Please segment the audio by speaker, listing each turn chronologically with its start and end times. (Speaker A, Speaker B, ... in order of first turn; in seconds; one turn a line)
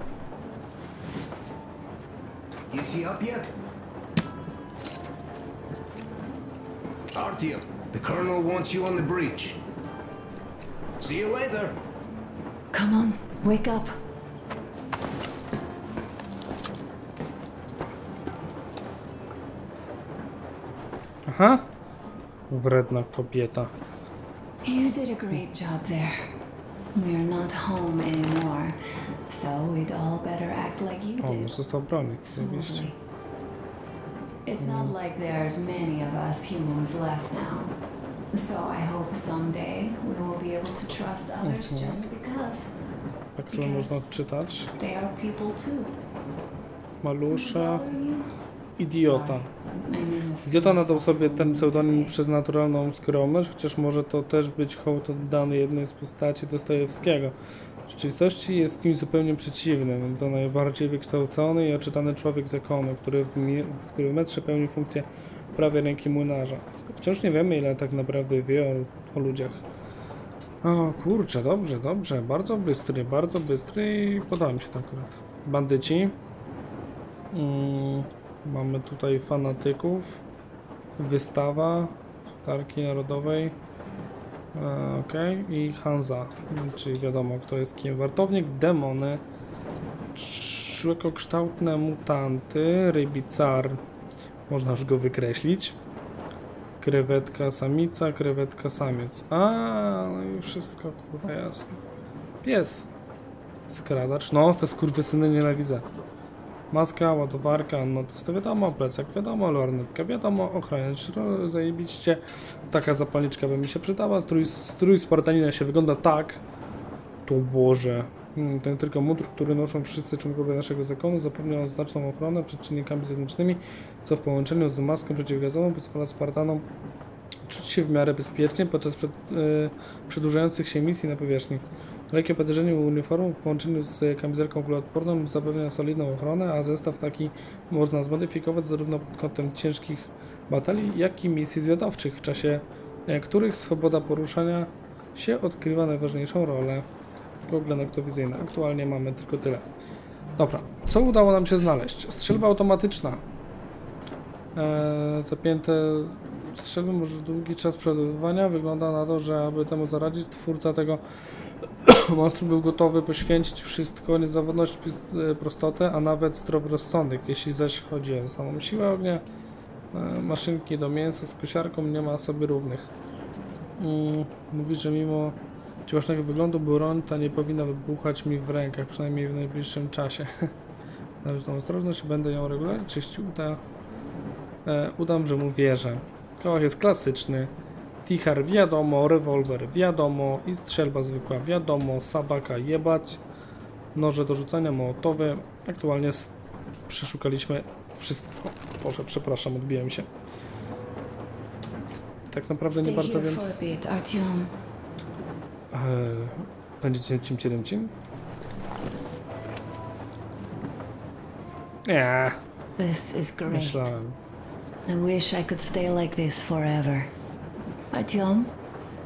Speaker A: 2.7-3.5
Speaker A: 7.1-9.6
Speaker A: 11.0-11.8
Speaker B: 12.7-14.0
Speaker C: 21.3-21.7
Speaker C: 22.5-23.7
Speaker B: 24.6-26.2
Speaker B: 26.9-28.8
Speaker B: 29.3-31.6
Speaker C: 31.2-32.9
Speaker B: 32.2-33.0
Speaker B: 34.5-37.7
Speaker C: 34.6-34.9
Speaker B: 38.3-42.7
Speaker C: 41.4-42.1
Speaker C: 43.4-44.7
Speaker B: 43.5-44.1
Speaker B: 44.8-45.9
Speaker C: 47.0-47.8
Speaker B: 47.3-48.3
Speaker C: 48.8-49.5
Speaker B: 48.9-52.1
Speaker C: 50.5-57.4
Speaker C: 57.9-69.6
Speaker C: 70.6-76.2
Speaker C: 77.3-80.2
Speaker C: 81.0-83.6
Speaker C: 84.5-89.2
Speaker C: 90.1-93.8
Speaker C: 94.5-95.8
Speaker C: 96.8-101.8
Speaker C: 102.4-102.9
Speaker C: 103.7-105.8
Speaker C: 106.7-116.4
Speaker C: 117.2-126.7
Speaker C: 127.5-146.8
Speaker C: 147.5-149.7
Speaker C: 150.4-153.2
Speaker C: 154.5-161.0
Speaker C: 161.8-169.2
Speaker C: 169.9-172.9
Speaker C: 173.8-180.5
Speaker C: 181.2-183.6
Speaker C: 184.6-187.5
Speaker C: 188.0-193.2
Speaker C: 193.9-196.3
Speaker C: 196.9-200.1
Speaker C: 202.3-203.4
Speaker B: 202.7-204.5
Speaker C: 205.7-207.9
Speaker C: 211.8-212.4
Speaker B: 212.8-213.9
Speaker C: 213.5-214.2
Speaker B: 214.9-217.1
Speaker B: 217.9-218.5